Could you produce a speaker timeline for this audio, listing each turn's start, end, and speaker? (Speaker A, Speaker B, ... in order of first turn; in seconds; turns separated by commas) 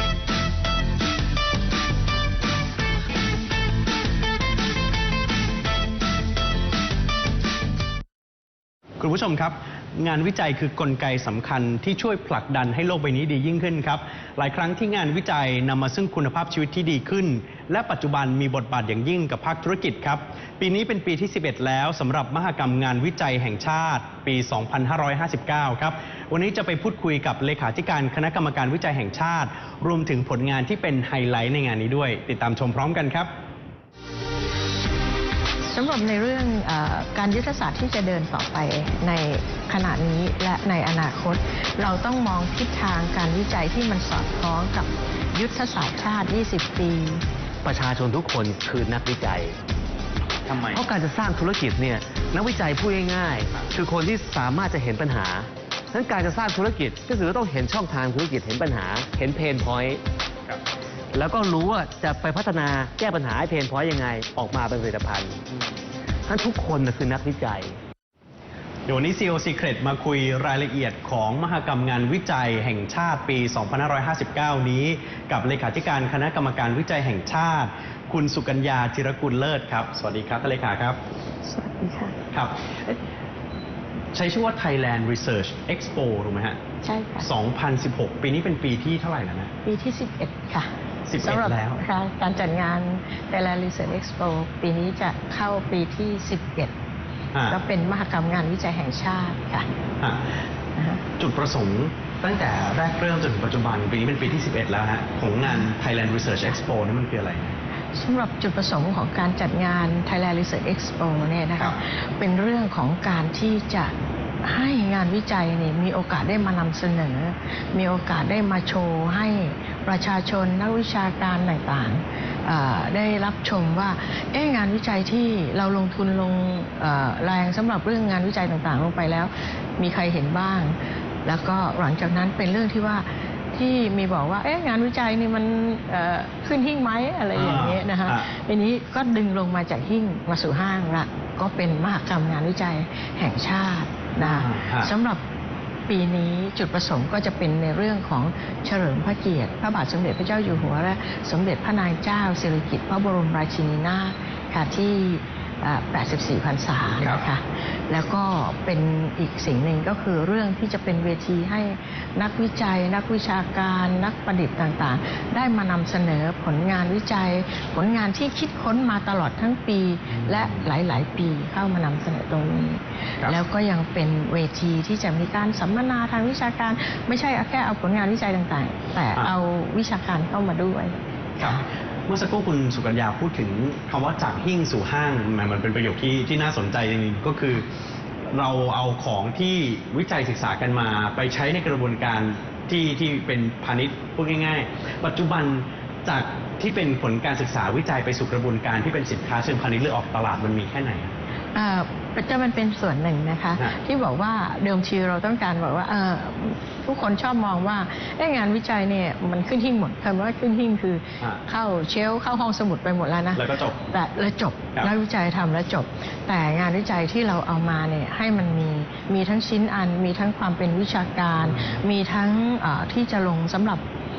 Speaker A: 9.0-33.3, Speaker B: 35.7-47.2, Speaker C: 47.6-49.6, Speaker A: 50.4-50.8, Speaker C: 50.7-60.0, Speaker C: 61.1-65.5, Speaker C: 66.3-67.8, Speaker A: 68.9-81.0, Speaker B: 81.4-82.2, Speaker A: 82.3-82.8, Speaker A: 84.1-86.6, Speaker B: 86.8-87.3, Speaker A: 87.2-89.5, Speaker B: 89.7-96.7, Speaker A: 91.1-91.8, Speaker B: 97.5-99.7, Speaker A: 100.0-100.4, Speaker B: 100.8-101.0, Speaker A: 101.2-107.6, Speaker B: 108.0-145.2, Speaker A: 137.3-138.3, Speaker A: 144.2-144.9, Speaker B: 145.9-181.6, Speaker A: 157.0-157.2, Speaker A: 170.1-170.7, Speaker A: 181.4-187.7, Speaker A: 188.3-201.1, Speaker B: 201.6-223.8, Speaker A: 213.4-213.8, Speaker A: 221.4-221.8